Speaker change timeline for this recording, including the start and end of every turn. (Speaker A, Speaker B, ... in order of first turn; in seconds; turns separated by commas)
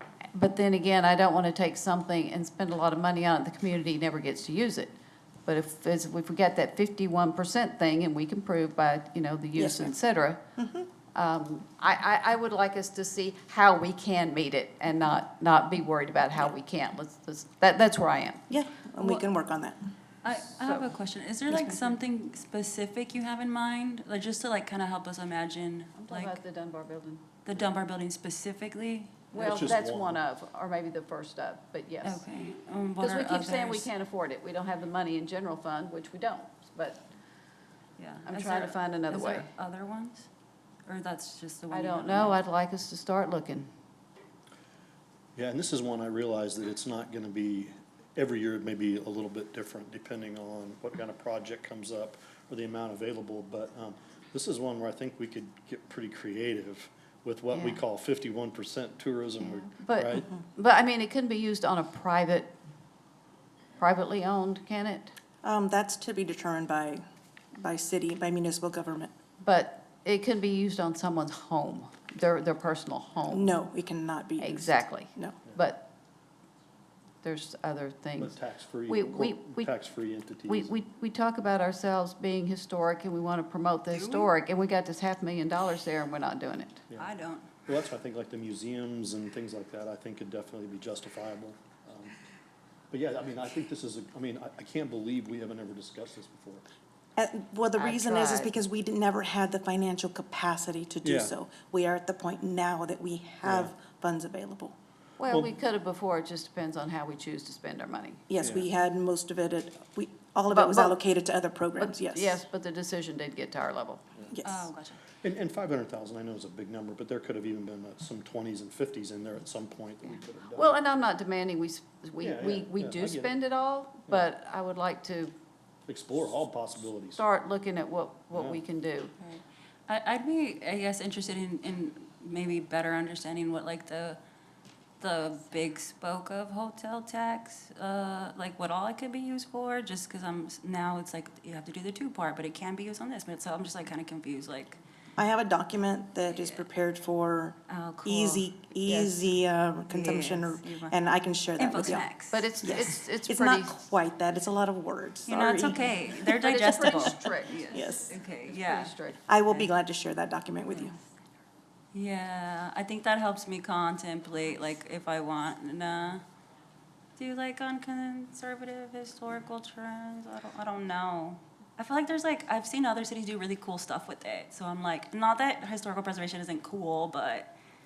Speaker A: 0.3-4.9, Speaker A: 5.5-10.4, Speaker B: 9.6-9.9, Speaker B: 10.6-10.9, Speaker A: 11.1-18.5, Speaker B: 18.5-19.9, Speaker C: 19.0-19.3, Speaker C: 20.2-26.4, Speaker A: 20.3-20.9, Speaker A: 21.5-22.0, Speaker A: 26.0-27.3, Speaker C: 27.4-29.6, Speaker A: 29.3-32.2, Speaker D: 29.4-30.2, Speaker C: 32.0-33.9, Speaker A: 33.0-37.1, Speaker C: 38.0-40.3, Speaker A: 38.3-39.5, Speaker C: 40.9-42.4, Speaker A: 41.7-43.7, Speaker D: 45.4-60.3, Speaker A: 57.5-57.8, Speaker A: 59.6-62.5, Speaker A: 63.8-65.1, Speaker B: 65.4-67.0, Speaker B: 67.6-69.1, Speaker A: 69.4-73.5, Speaker B: 73.3-75.4, Speaker A: 74.4-75.9, Speaker A: 77.2-78.4, Speaker D: 78.2-80.7, Speaker A: 78.9-79.7, Speaker A: 80.5-86.8, Speaker C: 83.9-84.3, Speaker C: 87.0-87.5, Speaker D: 87.7-92.2, Speaker D: 92.9-96.6, Speaker B: 97.2-104.8, Speaker A: 97.8-98.5, Speaker D: 101.0-101.3, Speaker D: 103.4-103.7, Speaker A: 105.2-108.2, Speaker D: 105.3-105.5, Speaker B: 108.3-112.4, Speaker D: 108.4-108.7, Speaker A: 110.5-111.0, Speaker A: 111.8-114.1, Speaker B: 114.3-114.7, Speaker C: 114.5-115.0, Speaker D: 115.2-120.8, Speaker A: 120.5-125.3, Speaker D: 122.2-123.4, Speaker D: 125.9-127.2, Speaker A: 127.2-129.1, Speaker D: 128.3-128.6, Speaker C: 129.2-134.2, Speaker C: 135.0-144.8, Speaker B: 145.2-152.1, Speaker C: 146.2-146.7, Speaker C: 147.7-148.5, Speaker A: 148.8-149.3, Speaker C: 149.9-151.0, Speaker C: 151.6-152.5, Speaker A: 152.3-153.8, Speaker B: 152.6-158.2, Speaker C: 155.3-159.0, Speaker A: 156.4-157.6, Speaker A: 158.5-159.2, Speaker B: 159.3-160.9, Speaker C: 161.9-166.2, Speaker C: 167.2-177.5